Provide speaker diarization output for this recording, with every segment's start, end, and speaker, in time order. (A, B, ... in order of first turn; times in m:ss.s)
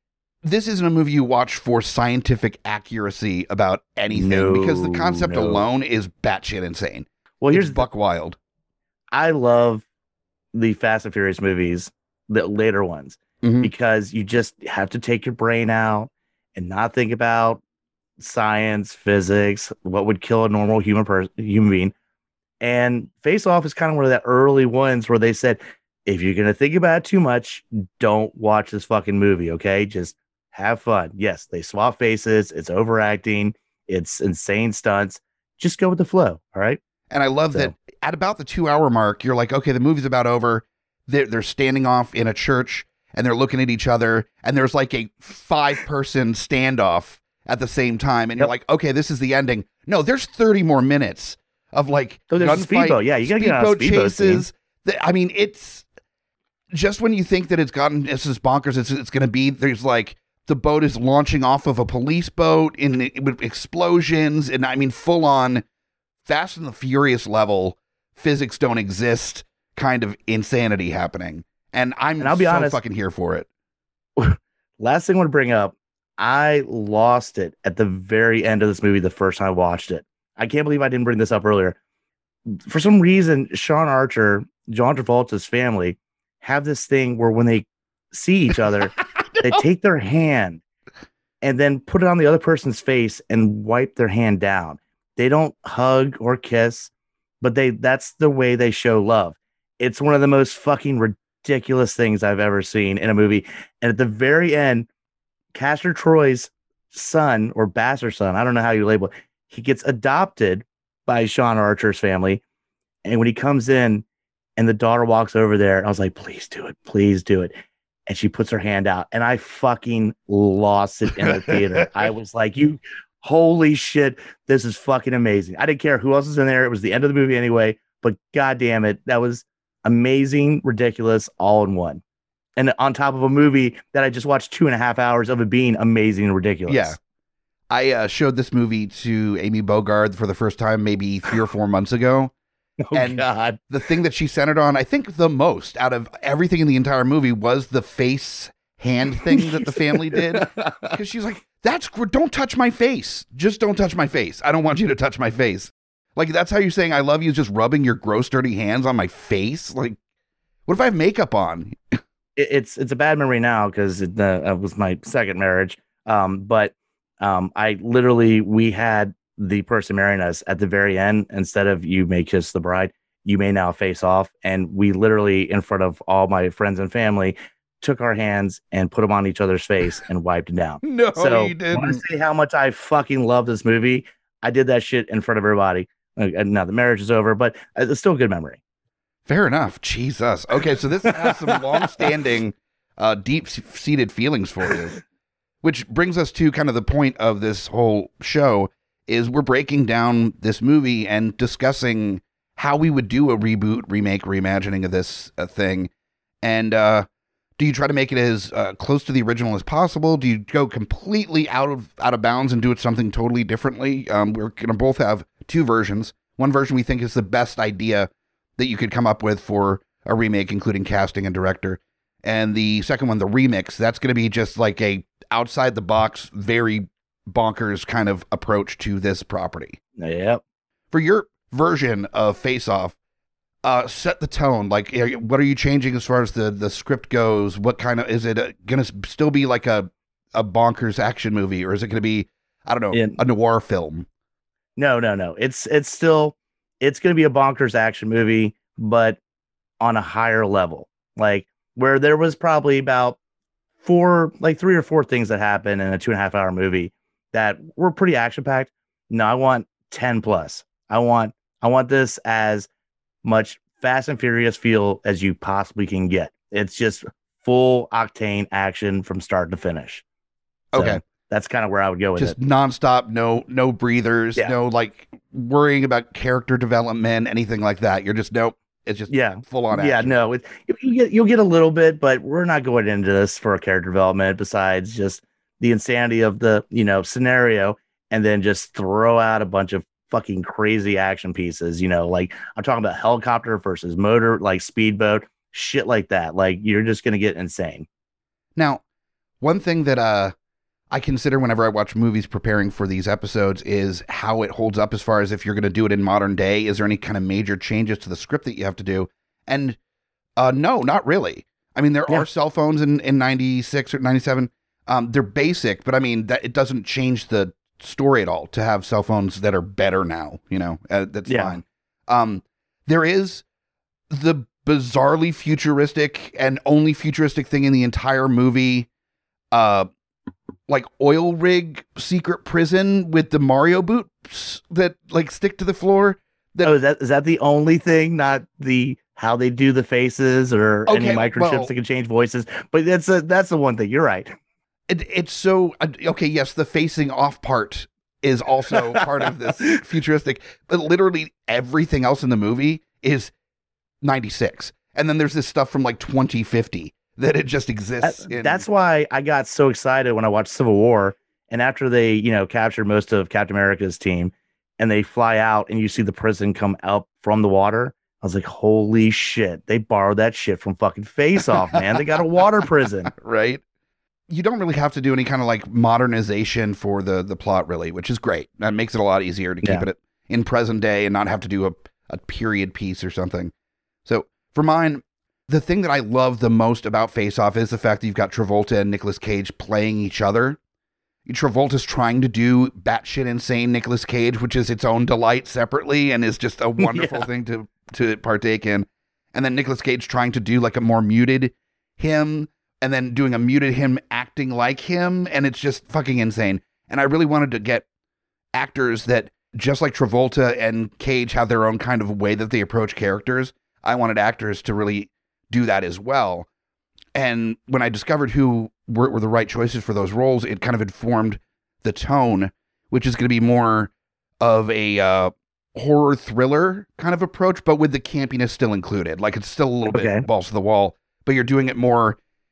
0:00.4-0:08.4 A
0:04.1-0:05.6 B
0:07.4-0:07.8 B
0:09.1-0:09.8 B
0:10.5-0:17.6 B
0:13.4-0:13.7 A
0:18.2-0:21.9 B
0:22.6-0:36.8 B
0:37.1-0:55.9 A
0:52.3-0:54.5 B
0:56.7-1:05.6 A
1:06.2-1:13.5 A
1:12.2-1:12.8 B
1:14.2-1:21.8 B
1:22.5-1:30.6 B
1:29.2-1:29.6 A
1:31.4-1:36.9 B
1:37.4-1:44.9 B
1:45.5-1:52.4 B
1:53.0-1:54.0 B
1:54.6-2:12.0 B
2:01.2-2:02.1 A
2:12.6-2:17.0 B
2:16.7-2:17.0 A
2:17.7-2:22.3 A
2:22.9-2:23.6 B
2:22.9-2:40.0 A
2:29.3-2:31.0 B
2:40.7-2:42.0 A
2:42.4-3:08.6 B
3:00.8-3:02.0 A
3:09.3-3:15.0 A
3:11.1-3:12.0 B
3:15.6-3:25.9 A
3:26.4-3:27.1 A
3:27.6-3:49.8 A
3:50.0-3:50.4 B
3:50.9-3:53.0 A
3:53.6-4:04.1 A
4:02.9-4:03.2 B
4:04.8-4:09.2 B
4:09.8-4:13.2 B
4:13.8-4:22.7 B
4:23.2-4:30.0 B
4:30.7-4:31.0 A
4:30.8-4:32.4 B
4:32.2-4:40.2 A
4:39.1-4:57.9 B
4:58.6-4:58.8 A
4:59.4-5:00.3 A
5:00.9-5:09.8 A
5:10.4-5:23.4 A
5:21.3-5:21.6 B
5:24.1-5:28.9 A
5:29.5-5:29.9 A
5:30.7-5:36.7 A
5:36.6-5:44.3 B
5:40.9-5:41.7 A
5:44.9-5:53.3 A
5:48.7-5:49.1 B
5:54.0-5:58.6 A
5:58.0-6:13.1 B
6:13.1-6:13.6 A
6:14.3-6:23.5 A
6:24.1-6:30.6 A
6:31.3-6:47.8 A
6:36.8-6:37.2 B
6:48.6-6:56.5 A
6:57.2-7:12.2 A
7:09.9-7:10.2 B